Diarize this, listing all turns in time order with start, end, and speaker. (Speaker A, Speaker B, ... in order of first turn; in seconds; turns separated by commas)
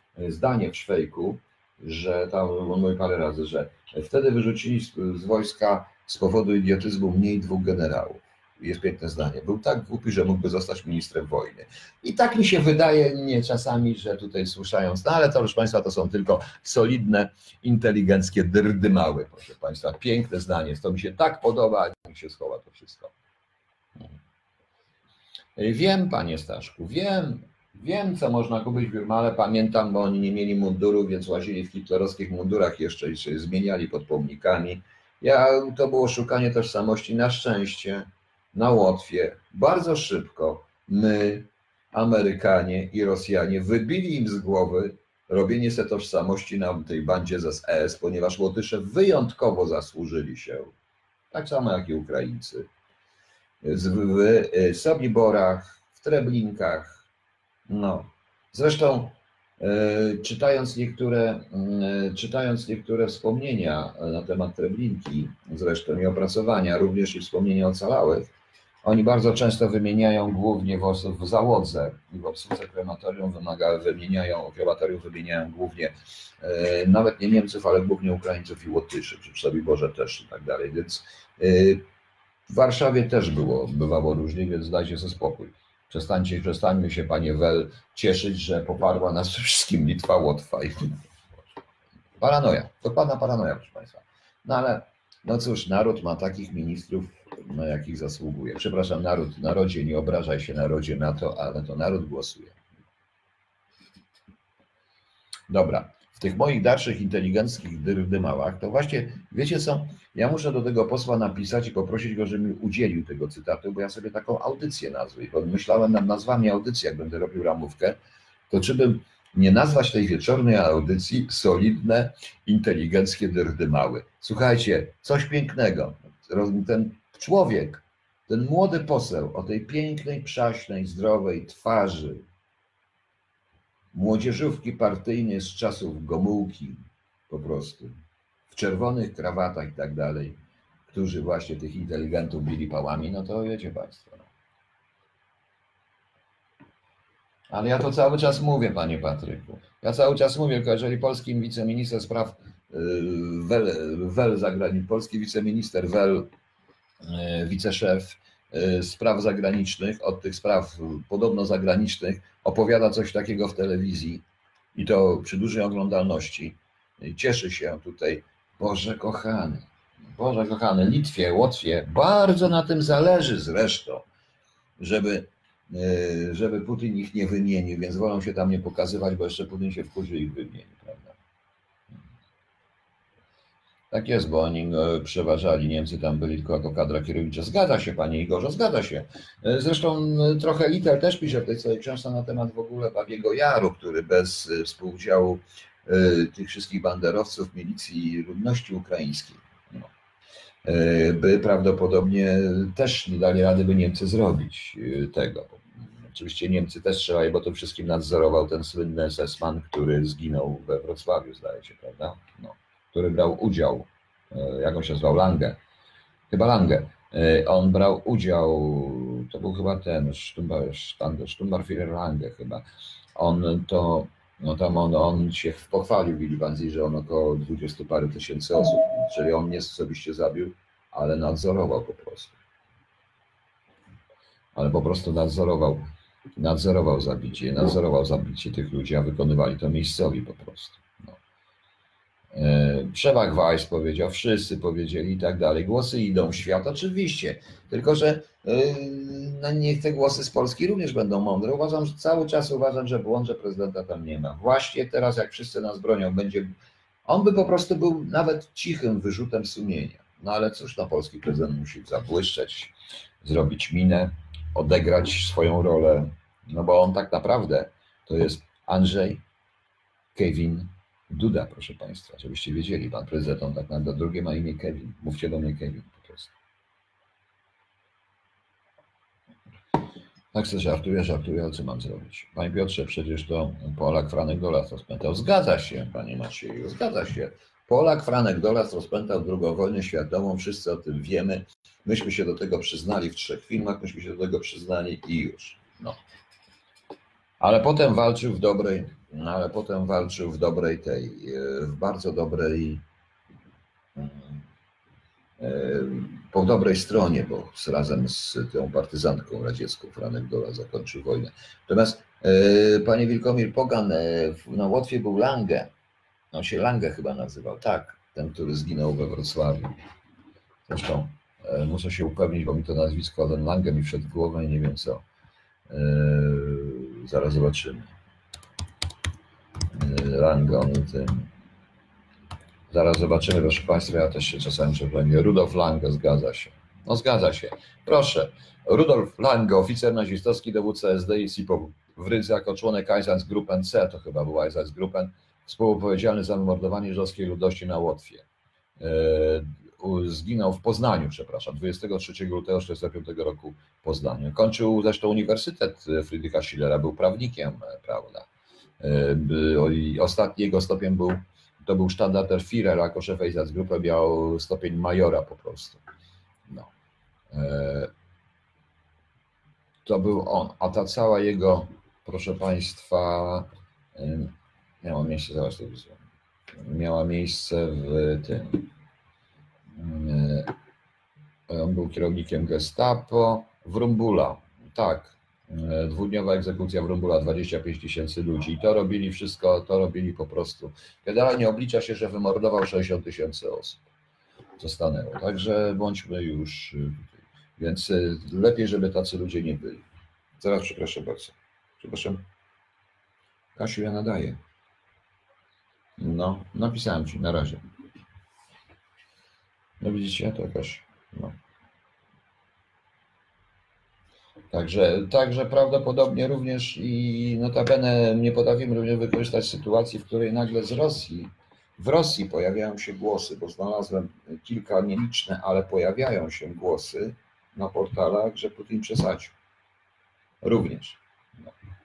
Speaker A: 0.1-23.1, Speaker A: 25.6-50.7, Speaker A: 51.3-52.6, Speaker A: 53.6-57.1, Speaker A: 57.7-68.3, Speaker A: 68.8-81.8, Speaker A: 82.5-91.0, Speaker A: 92.2-102.6, Speaker A: 105.5-118.0, Speaker A: 118.5-132.2, Speaker A: 133.9-137.9, Speaker A: 138.5-140.4, Speaker A: 140.9-144.3, Speaker A: 147.5-156.3, Speaker A: 157.0-174.1, Speaker A: 174.8-181.2, Speaker A: 183.9-199.9, Speaker A: 200.6-215.6, Speaker A: 216.3-222.6, Speaker A: 223.2-232.3, Speaker A: 234.5-235.8, Speaker A: 236.4-241.2, Speaker A: 242.3-256.5, Speaker A: 257.1-269.2, Speaker A: 270.1-276.3, Speaker A: 280.3-296.0, Speaker A: 297.4-302.8, Speaker A: 303.9-304.4, Speaker A: 305.4-315.7, Speaker A: 316.3-319.7, Speaker A: 320.7-325.0, Speaker A: 325.7-327.9, Speaker A: 329.7-331.3, Speaker A: 332.7-348.2, Speaker A: 348.8-358.3, Speaker A: 358.8-365.8, Speaker A: 367.3-367.9, Speaker A: 369.8-376.0, Speaker A: 376.6-378.7, Speaker A: 379.7-380.5, Speaker A: 381.5-393.9, Speaker A: 394.6-399.9, Speaker A: 400.4-402.2, Speaker A: 403.6-404.4, Speaker A: 406.0-407.6, Speaker A: 409.8-411.4, Speaker A: 414.5-429.3, Speaker A: 430.4-431.5